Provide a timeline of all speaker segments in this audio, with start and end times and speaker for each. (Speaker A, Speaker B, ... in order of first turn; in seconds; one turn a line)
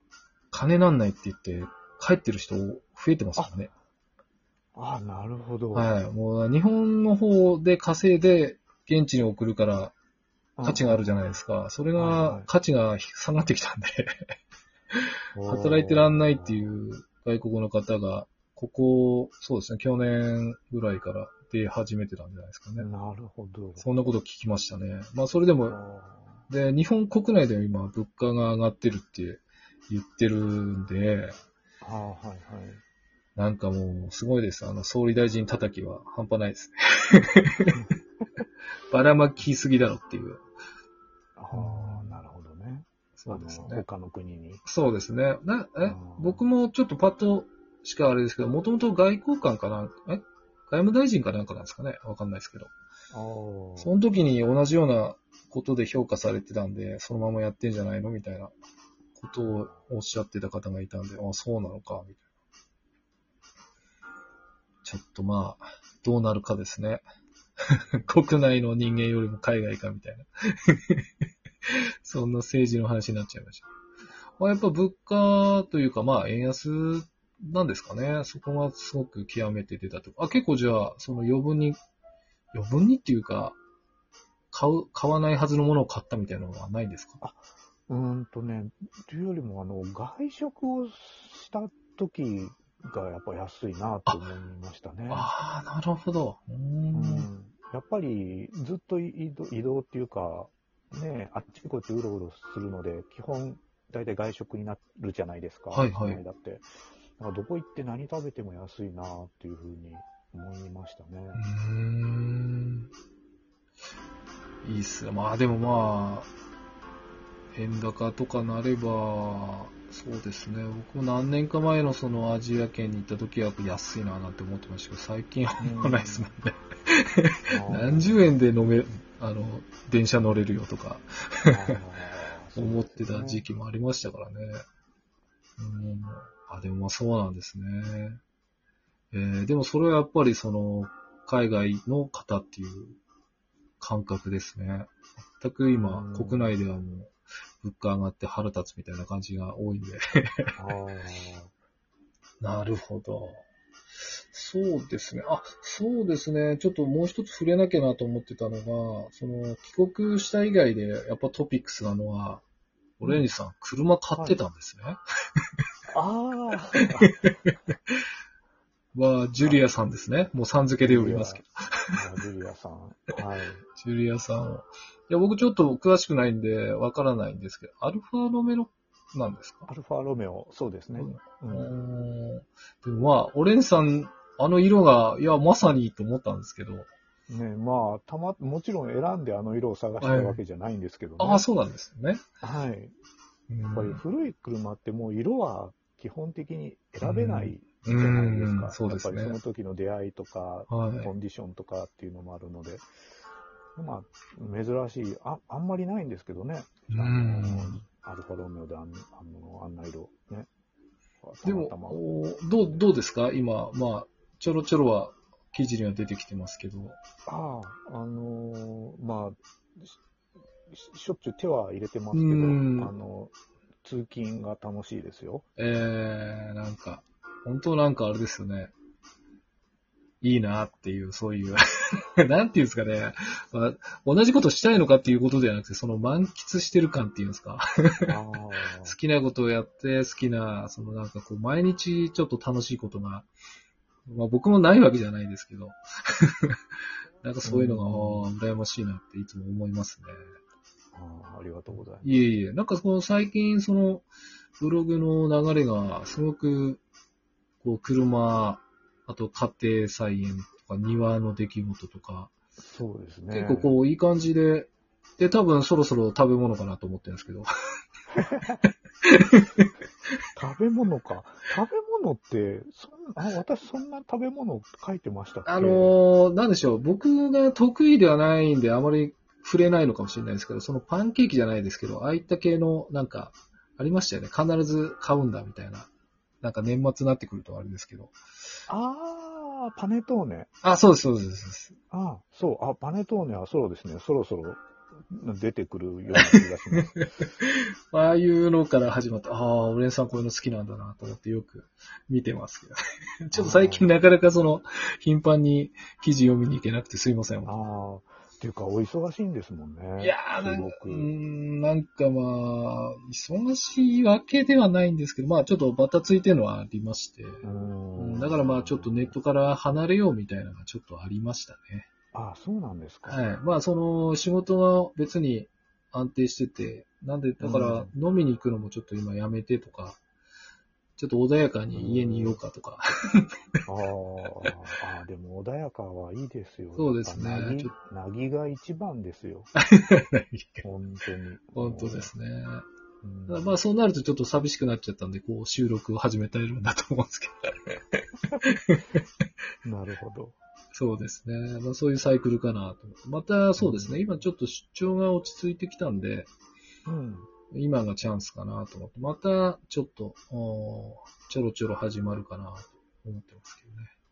Speaker A: 0.5-3.7
Speaker B: 3.4-3.7
Speaker B: 4.8-5.9
Speaker A: 5.7-9.9
Speaker B: 10.6-11.2
Speaker A: 10.6-14.2
Speaker B: 12.0-12.5
Speaker A: 14.9-22.9
Speaker B: 15.3-16.8
Speaker B: 22.8-23.9
Speaker A: 23.8-25.8
Speaker B: 25.7-26.5
Speaker A: 26.5-31.4
Speaker B: 31.8-32.8
Speaker A: 33.4-37.8
Speaker B: 37.7-38.4
Speaker A: 38.9-40.4
Speaker B: 41.4-44.6
Speaker A: 41.5-42.2
Speaker A: 43.2-43.9
Speaker A: 44.7-52.7
Speaker B: 45.8-46.4
Speaker B: 53.1-53.9
Speaker A: 53.8-58.5
Speaker A: 59.2-62.2
Speaker A: 64.8-67.0
Speaker A: 67.7-71.1
Speaker A: 71.7-73.7
Speaker A: 74.4-81.8
Speaker A: 82.5-83.6
Speaker A: 84.5-87.2
Speaker B: 87.2-95.3
Speaker A: 95.1-97.3
Speaker B: 96.9-106.7
Speaker A: 105.7-106.2
Speaker B: 107.2-111.5
Speaker A: 111.3-112.9
Speaker A: 114.6-116.3
Speaker A: 117.5-131.8
Speaker B: 125.6-126.3
Speaker B: 127.5-128.3
Speaker B: 131.5-133.5
Speaker A: 132.6-134.6
Speaker A: 135.6-138.2
Speaker A: 139.1-143.0
Speaker A: 143.8-150.5
Speaker B: 145.7-146.6
Speaker B: 150.6-151.5
Speaker A: 152.4-153.4
Speaker A: 154.3-162.4
Speaker A: 163.0-165.0
Speaker B: 163.1-163.3
Speaker B: 165.9-167.1
Speaker A: 166.8-168.0
Speaker A: 168.9-171.9
Speaker B: 170.8-173.7
Speaker A: 173.8-179.7
Speaker B: 179.7-181.7
Speaker A: 181.0-186.9
Speaker B: 187.3-191.4
Speaker A: 190.0-190.4
Speaker A: 191.2-192.2
Speaker B: 192.4-193.0
Speaker A: 193.5-194.0
Speaker B: 193.6-202.9
Speaker A: 197.0-199.4
Speaker A: 200.7-201.1
Speaker B: 203.8-210.5
Speaker A: 206.9-207.8
Speaker B: 211.2-212.0
Speaker A: 211.4-217.0
Speaker B: 217.3-220.0
Speaker B: 220.7-225.4
Speaker A: 222.1-222.9
Speaker A: 225.6-228.7
Speaker A: 230.2-231.6
Speaker A: 232.2-238.1
Speaker B: 238.0-239.0
Speaker A: 238.8-243.3
Speaker A: 244.1-246.6
Speaker A: 247.2-250.2
Speaker B: 247.4-248.3
Speaker B: 250.9-252.2
Speaker A: 252.0-254.1
Speaker A: 254.6-256.8
Speaker A: 257.6-262.3
Speaker B: 262.6-263.7
Speaker A: 263.3-267.5
Speaker B: 268.1-268.6
Speaker A: 269.1-269.7
Speaker B: 270.4-276.0
Speaker A: 275.5-285.9
Speaker A: 286.4-288.1
Speaker B: 288.7-290.5
Speaker A: 290.6-291.8
Speaker B: 291.9-297.1
Speaker A: 296.9-307.6
Speaker B: 303.3-303.9
Speaker B: 307.4-311.1
Speaker A: 310.0-317.4
Speaker B: 317.4-319.1
Speaker A: 318.0-321.9
Speaker B: 322.1-323.2
Speaker A: 323.1-330.0
Speaker B: 327.4-327.9
Speaker A: 331.0-333.3
Speaker B: 331.7-332.4
Speaker B: 333.7-339.5
Speaker A: 336.8-337.7
Speaker A: 339.6-340.6
Speaker B: 340.6-342.1
Speaker A: 341.6-342.6
Speaker B: 343.0-343.6
Speaker A: 343.3-349.0
Speaker B: 349.6-350.4
Speaker A: 350.7-356.3
Speaker B: 353.6-354.1
Speaker B: 356.9-357.3
Speaker A: 357.5-363.9